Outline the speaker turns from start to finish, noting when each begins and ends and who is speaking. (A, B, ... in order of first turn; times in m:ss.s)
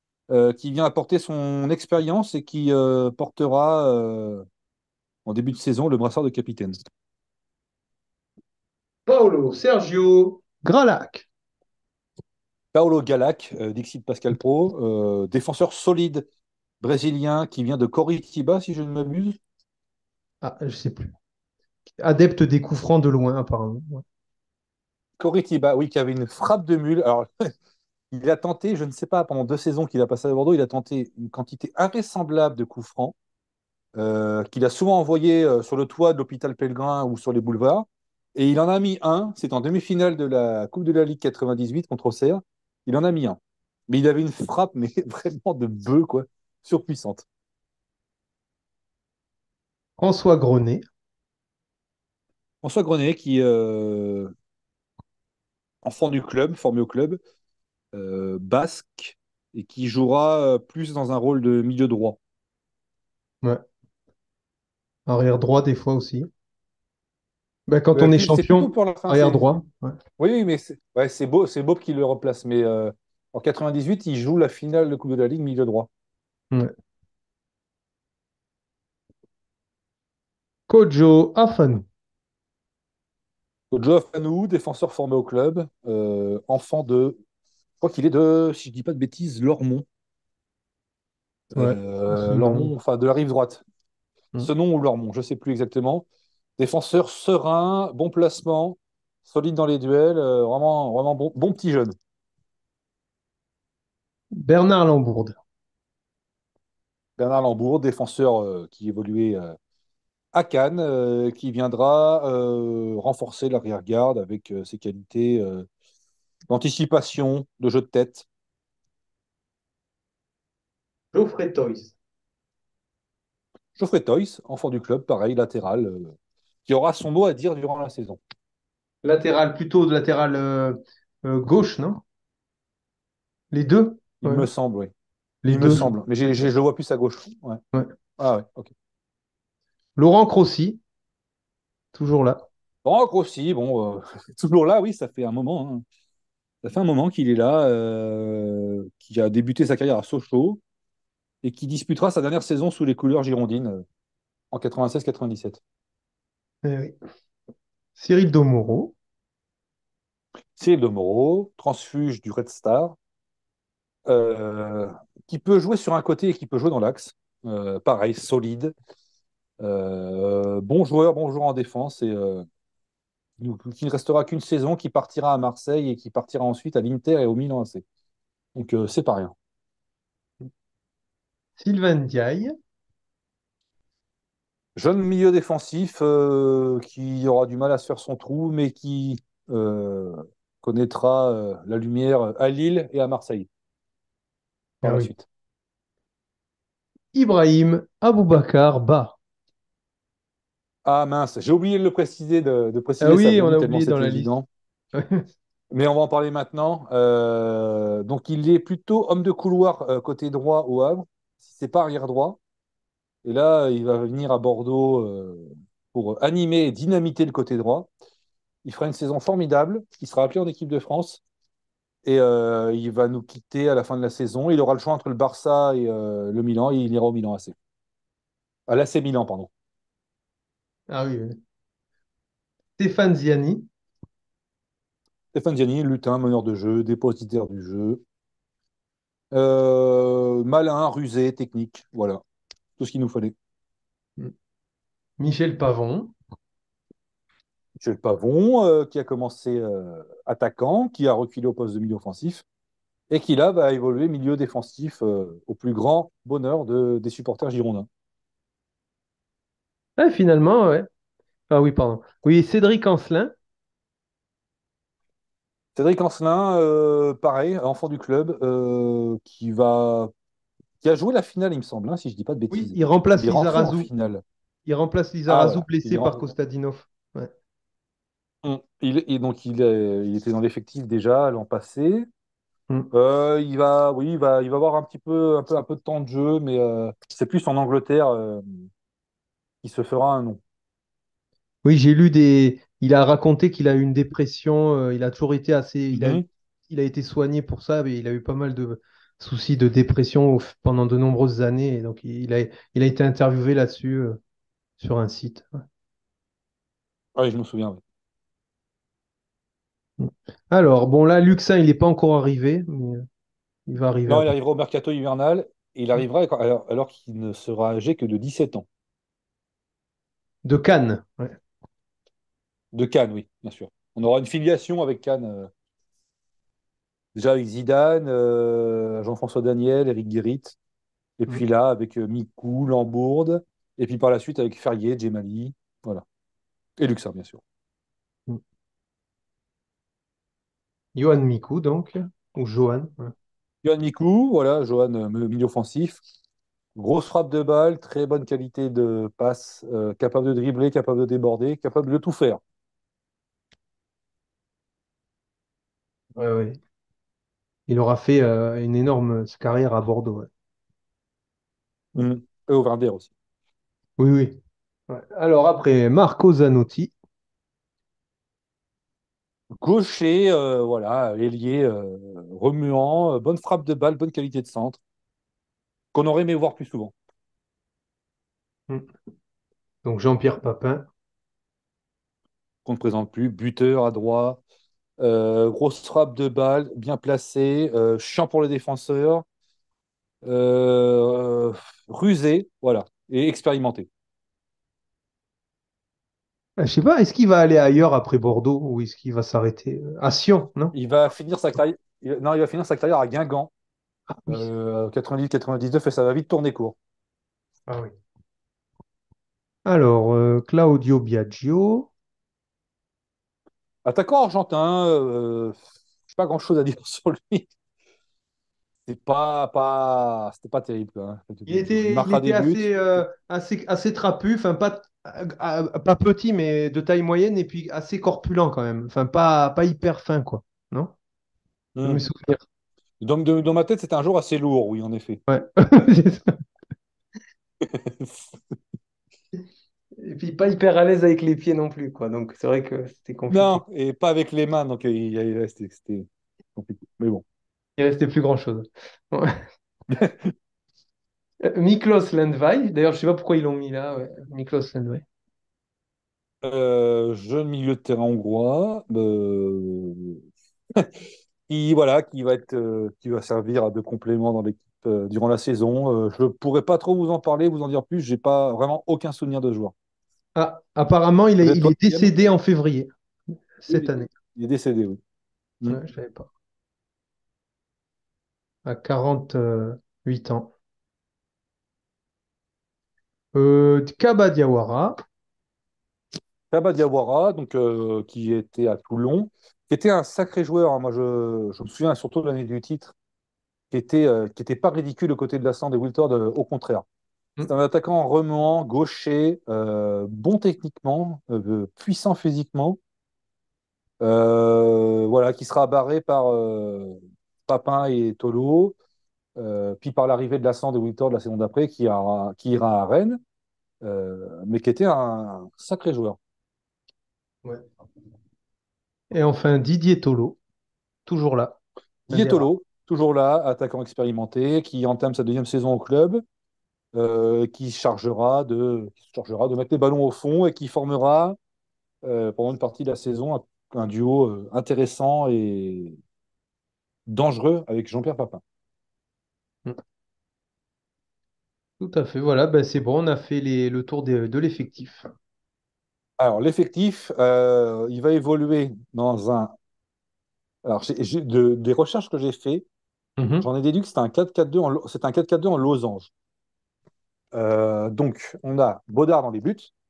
0:00.3-0:04.4 A
0:05.2-0:06.8 A
0:09.1-0:11.2 B
0:12.7-0:16.2 A
0:16.8-0:19.4 A
0:20.4-0:21.1 B
0:22.0-0:24.0 B
0:25.2-0:27.5 A
0:28.1-0:33.1 A
0:33.9-0:47.2 A
0:50.0-0:50.8 B
0:52.6-0:54.3 A
0:55.8-0:57.2 A
0:57.9-1:02.2 A
1:05.1-1:06.3 B
1:07.7-1:10.0 B
1:07.9-1:09.5 A
1:10.2-1:15.9 A
1:20.7-1:21.8 B
1:23.7-1:27.2 A
1:27.8-1:29.8 A
1:31.5-1:33.6 A
1:31.5-1:32.7 B
1:34.4-1:36.0 A
1:36.6-1:41.9 A
1:44.3-1:45.4 B
1:47.2-1:49.5 A
1:50.3-1:55.7 A
1:56.5-1:58.2 A
2:01.1-2:01.9 B
2:03.8-2:06.1 A
2:06.6-2:08.2 A
2:09.0-2:12.0 B
2:13.5-2:14.5 B
2:14.2-2:14.9 A
2:15.4-2:15.9 B
2:15.5-2:17.6 A
2:18.2-2:18.7 A
2:20.0-2:20.8 B
2:21.9-2:22.4 B
2:22.8-2:25.8 A
2:26.6-2:30.6 A
2:31.4-2:33.8 A
2:34.5-2:35.6 A
2:36.6-2:37.0 B
2:38.0-2:38.9 B
2:40.6-2:43.0 A
2:44.0-2:48.7 A
2:49.6-2:52.4 A
2:53.4-2:57.8 A
2:58.5-2:59.3 A
3:01.6-3:02.5 B
3:04.8-3:13.5 A
3:14.8-3:15.1 B
3:14.8-3:15.2 A
3:17.1-3:19.2 B
3:20.8-3:24.5 A
3:23.0-3:24.3 B
3:24.9-3:25.2 B
3:25.7-3:32.4 A
3:33.2-3:37.9 A
3:38.6-3:41.2 A
3:42.0-3:47.5 A
3:48.7-3:49.5 A
3:50.9-3:51.4 B
3:52.8-3:53.7 B
3:55.3-3:58.0 A
3:59.3-4:02.2 A
4:02.8-4:03.3 A
4:05.2-4:06.1 B
4:07.8-4:12.4 A
4:13.1-4:17.9 A
4:20.0-4:20.9 B
4:21.5-4:23.3 B
4:25.7-4:30.1 A
4:30.8-4:34.2 A
4:32.5-4:33.9 B
4:34.6-4:37.3 B
4:35.3-4:36.2 A
4:38.4-4:42.1 A
4:42.9-4:48.4 A
4:49.6-4:50.4 A
4:51.6-5:04.2 B
4:55.9-4:56.2 A
5:04.8-5:05.6 B
5:07.2-5:07.8 A
5:10.0-5:13.0 B
5:13.7-5:14.3 B
5:14.1-5:18.6 A
5:20.4-5:21.4 B
5:22.7-5:25.5 A
5:27.1-5:30.6 A
5:31.2-5:36.0 A
5:36.8-5:37.4 A
5:40.9-5:43.1 B
5:43.6-5:46.0 A
5:46.7-5:52.4 A
5:56.2-5:56.6 B
5:57.7-6:00.3 B
6:01.9-6:03.1 A
6:04.0-6:06.9 B
6:09.5-6:14.8 A
6:15.9-6:16.9 A
6:19.8-6:20.8 B
6:22.6-6:24.4 A
6:25.0-6:29.2 A
6:30.2-6:33.9 A
6:36.6-6:40.7 B
6:40.7-6:43.5 A
6:44.1-6:44.4 B
6:44.3-6:46.8 A
6:49.6-6:51.9 B
6:53.8-6:55.6 A
6:56.1-6:57.5 A
6:58.8-7:03.0 A
7:01.5-7:10.9 B
7:11.7-7:12.0 A
7:11.8-7:12.4 B
7:13.0-7:15.2 A
7:15.3-7:16.4 B
7:17.6-7:18.3 A
7:20.0-7:23.6 B
7:23.3-7:27.2 A
7:27.8-7:29.4 B
7:29.9-7:30.3 A
7:31.4-7:35.0 B
7:36.4-7:40.2 A
7:41.5-7:49.7 A
7:50.4-7:52.9 B
7:51.4-7:52.2 A
7:53.6-7:54.1 B
7:53.7-7:55.0 A
7:55.7-7:56.3 B
7:58.6-8:00.5 B
8:03.3-8:05.0 B
8:06.5-8:12.9 A
8:13.7-8:16.8 A
8:17.4-8:22.8 A
8:24.0-8:28.7 A
8:29.4-8:33.2 A
8:33.8-8:36.2 A
8:39.1-8:40.4 B
8:41.0-8:42.5 B
8:42.1-8:46.2 A
8:46.9-8:51.4 A
8:52.0-8:56.0 A
8:57.1-8:58.4 A
9:01.8-9:05.1 B
9:06.2-9:09.5 A
9:10.6-9:12.6 A
9:13.2-9:13.5 B
9:13.4-9:16.1 A
9:17.3-9:19.7 A